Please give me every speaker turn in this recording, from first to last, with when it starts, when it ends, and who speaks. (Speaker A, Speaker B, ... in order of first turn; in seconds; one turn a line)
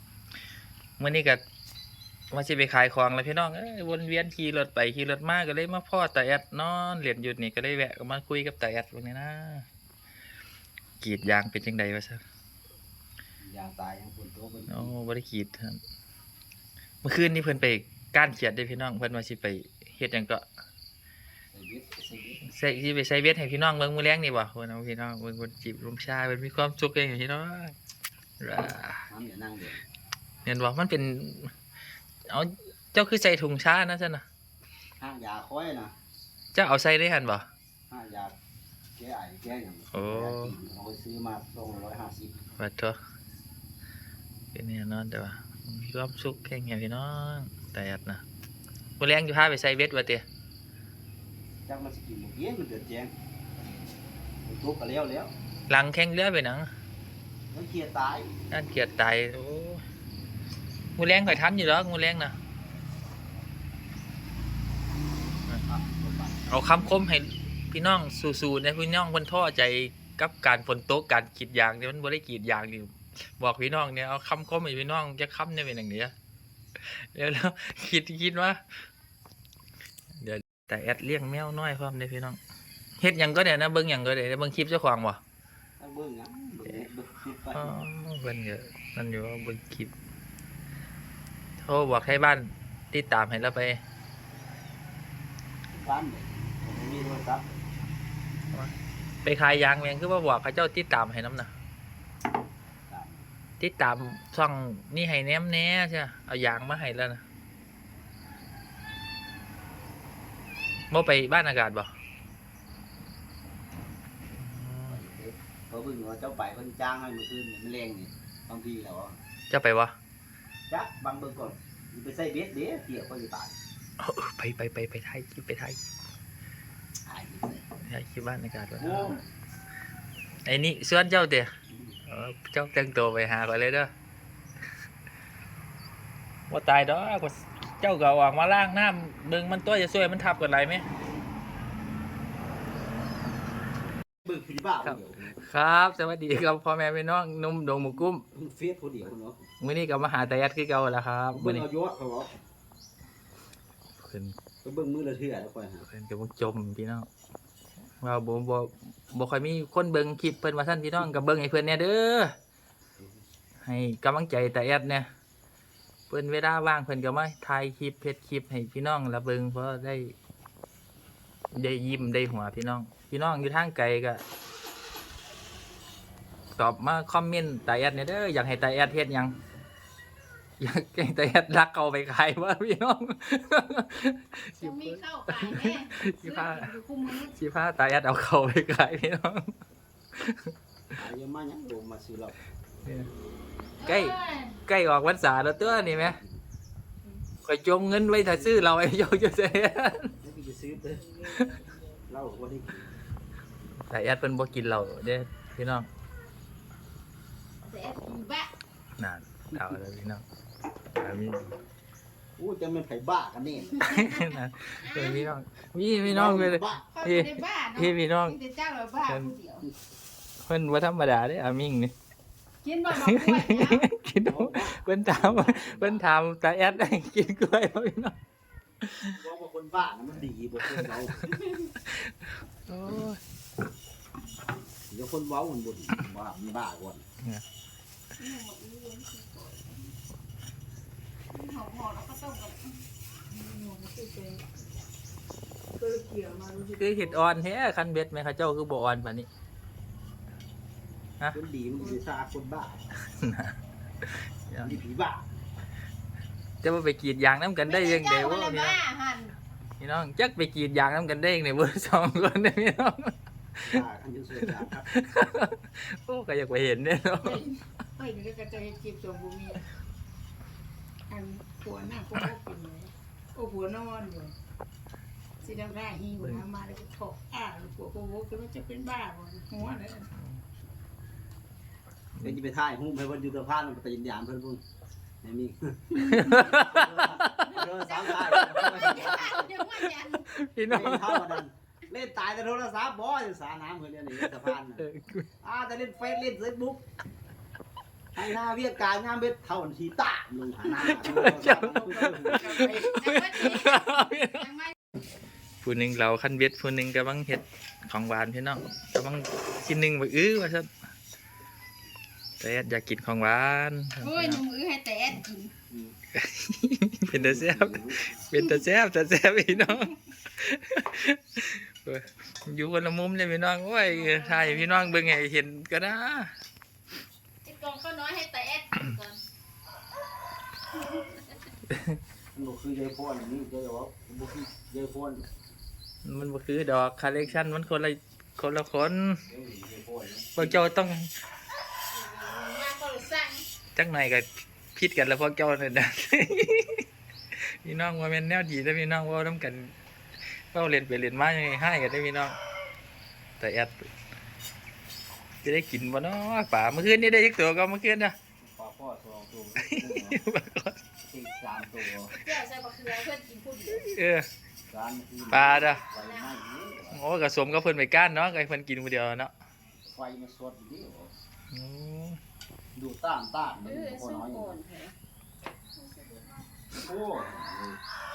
Speaker A: 1.0-1.4
Speaker A: 2.3-9.7
Speaker A: 11.0-12.2
Speaker B: 13.4-14.9
Speaker A: 14.7-15.8
Speaker A: 17.0-20.4
Speaker B: 21.5-22.4
Speaker A: 22.4-27.7
Speaker A: 28.4-29.1
Speaker B: 29.1-29.8
Speaker A: 30.4-31.5
Speaker A: 32.3-34.2
Speaker B: 35.0-35.9
Speaker A: 36.5-37.5
Speaker B: 37.9-38.3
Speaker B: 39.0-42.4
Speaker A: 39.9-40.5
Speaker A: 42.6-43.0
Speaker A: 44.5-48.2
Speaker A: 49.0-50.2
Speaker B: 51.7-53.1
Speaker B: 54.5-55.3
Speaker A: 55.7-56.7
Speaker B: 57.5-58.3
Speaker A: 58.5-59.8
Speaker A: 61.0-62.4
Speaker B: 62.8-63.5
Speaker B: 65.7-66.6
Speaker A: 66.5-76.1
Speaker A: 76.8-78.7
Speaker A: 80.2-82.4
Speaker A: 83.0-85.2
Speaker B: 85.8-87.8
Speaker A: 87.5-89.9
Speaker A: 91.6-93.8
Speaker B: 95.7-97.7
Speaker A: 99.2-101.5
Speaker B: 102.9-103.2
Speaker A: 103.6-107.2
Speaker A: 110.9-111.9
Speaker A: 114.4-115.0
Speaker B: 114.9-119.2
Speaker A: 119.5-119.9
Speaker B: 120.7-123.5
Speaker A: 124.0-125.8
Speaker B: 127.1-127.7
Speaker A: 127.8-129.2
Speaker B: 128.8-129.2
Speaker A: 130.4-131.5
Speaker B: 131.7-132.0
Speaker A: 132.1-133.9
Speaker A: 136.5-140.8
Speaker B: 144.2-145.4
Speaker A: 144.9-148.2
Speaker B: 148.3-149.4
Speaker A: 149.6-151.7
Speaker B: 151.3-152.3
Speaker A: 154.0-154.4
Speaker B: 154.6-155.9
Speaker A: 155.9-157.1
Speaker A: 158.0-162.3
Speaker A: 163.6-165.1
Speaker A: 166.1-170.2
Speaker A: 171.5-174.2
Speaker A: 176.6-179.4
Speaker A: 180.6-186.7
Speaker C: 184.6-187.4
Speaker A: 187.3-189.6
Speaker A: 190.2-190.5
Speaker B: 190.9-192.3
Speaker C: 193.8-194.6
Speaker A: 193.8-196.2
Speaker B: 195.5-196.4
Speaker A: 197.4-200.2
Speaker B: 200.2-201.4
Speaker A: 201.3-201.6
Speaker B: 202.1-202.9
Speaker A: 203.9-205.9
Speaker C: 207.6-208.5
Speaker A: 209.0-210.2
Speaker A: 211.0-211.5
Speaker B: 212.4-214.1
Speaker C: 213.7-215.3
Speaker A: 213.8-218.4
Speaker B: 216.0-216.9
Speaker C: 216.9-219.7
Speaker A: 220.4-221.9
Speaker C: 222.6-223.9
Speaker A: 222.9-228.2
Speaker B: 224.1-226.1
Speaker A: 228.8-229.2
Speaker B: 229.1-231.4
Speaker C: 231.4-231.7
Speaker A: 231.8-233.2
Speaker B: 234.9-237.0
Speaker C: 238.2-240.0
Speaker C: 241.3-244.4
Speaker C: 245.8-247.3
Speaker A: 246.8-249.3
Speaker B: 251.3-252.8
Speaker A: 253.2-254.8
Speaker B: 254.6-255.3
Speaker A: 256.6-258.8
Speaker C: 257.7-259.4
Speaker A: 259.8-263.1
Speaker B: 263.6-264.9
Speaker A: 264.9-267.4
Speaker C: 267.2-269.6
Speaker C: 271.1-274.3
Speaker C: 275.4-280.1
Speaker A: 280.1-280.4
Speaker B: 282.2-284.6
Speaker B: 285.2-289.5
Speaker A: 286.0-287.5
Speaker C: 286.1-286.6
Speaker C: 287.5-290.3
Speaker A: 288.2-289.1
Speaker A: 289.8-291.4
Speaker B: 290.6-294.9
Speaker A: 294.2-295.3
Speaker B: 295.4-296.8
Speaker B: 298.1-302.9
Speaker A: 300.7-304.5
Speaker C: 300.8-304.7
Speaker A: 305.6-310.7
Speaker A: 312.4-314.4
Speaker C: 314.0-315.5
Speaker B: 315.7-315.9
Speaker A: 316.1-326.3
Speaker B: 317.1-318.3
Speaker C: 323.9-325.1
Speaker C: 327.4-329.2
Speaker C: 330.7-331.4
Speaker A: 331.7-332.0
Speaker B: 332.3-335.3
Speaker A: 336.1-339.2
Speaker B: 339.3-340.7
Speaker A: 340.4-341.1
Speaker C: 341.9-343.4
Speaker A: 343.8-349.7
Speaker A: 350.5-352.4
Speaker A: 353.4-353.9
Speaker A: 355.4-358.1
Speaker B: 358.4-360.2
Speaker A: 359.6-360.8
Speaker B: 361.1-362.1
Speaker C: 362.2-364.0
Speaker A: 363.7-364.3
Speaker B: 364.7-367.0
Speaker A: 365.3-365.8
Speaker C: 366.0-366.3
Speaker A: 366.9-369.3
Speaker B: 369.9-371.1
Speaker A: 371.5-372.2
Speaker B: 372.8-374.6
Speaker C: 373.6-374.9
Speaker C: 375.8-376.5
Speaker B: 376.7-377.8